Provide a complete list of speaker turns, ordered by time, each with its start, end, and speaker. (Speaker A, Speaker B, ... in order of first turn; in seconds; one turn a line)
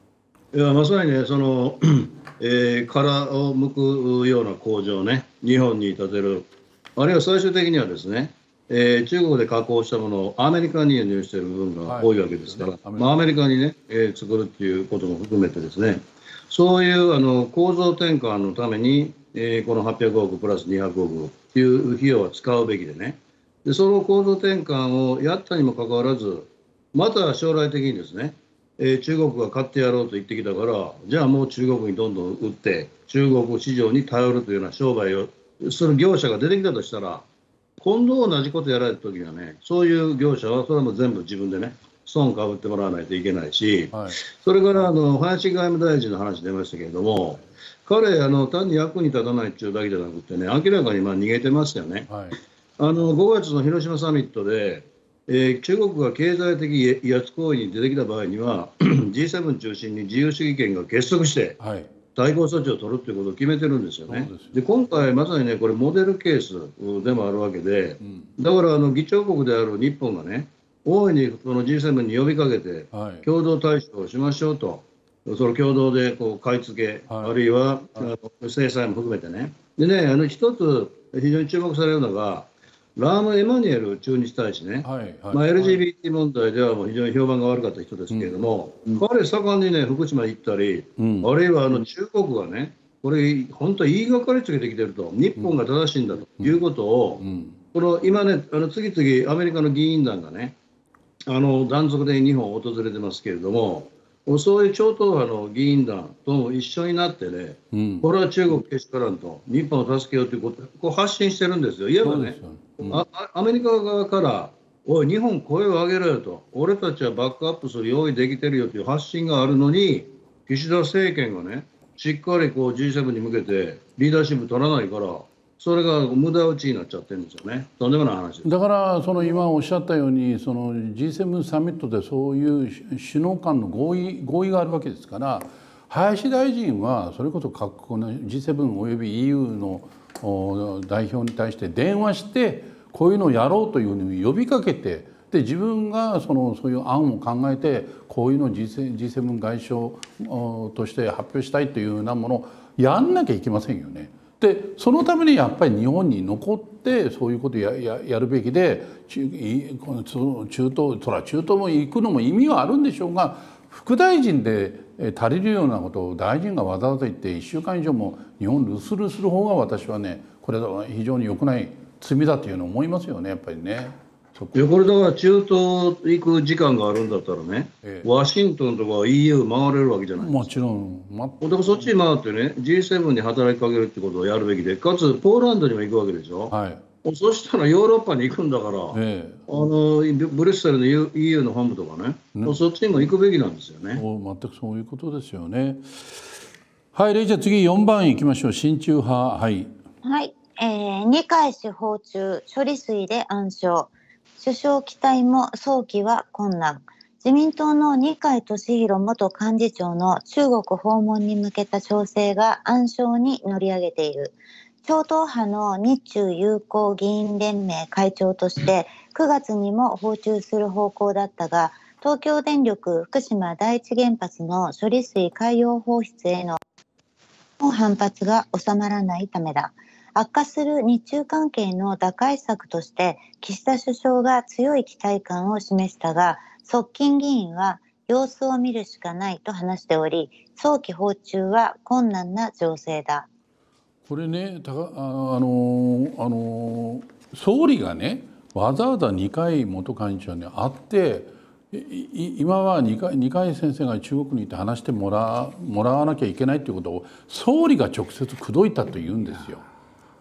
Speaker A: 0.5-37.2
Speaker B: 11.9-13.1
Speaker A: 37.8-52.1
Speaker B: 43.9-44.2
Speaker B: 52.1-52.4
Speaker A: 52.8-61.6
Speaker B: 61.6-61.9
Speaker A: 62.1-97.2
Speaker B: 64.1-64.6
Speaker B: 68.0-68.3
Speaker B: 72.9-73.3
Speaker B: 77.1-77.3
Speaker B: 84.8-85.8
Speaker B: 91.0-91.3
Speaker B: 97.2-97.6
Speaker A: 97.7-100.5
Speaker A: 101.3-128.5
Speaker B: 107.7-108.1
Speaker B: 112.0-113.0
Speaker B: 128.4-174.6
Speaker A: 174.5-180.5
Speaker B: 180.2-181.9
Speaker A: 181.4-186.5
Speaker B: 186.5-186.8
Speaker A: 187.0-194.0
Speaker B: 188.9-189.4
Speaker B: 194.0-196.4
Speaker B: 196.9-199.7
Speaker C: 200.0-226.6
Speaker C: 227.6-243.3
Speaker B: 244.1-259.6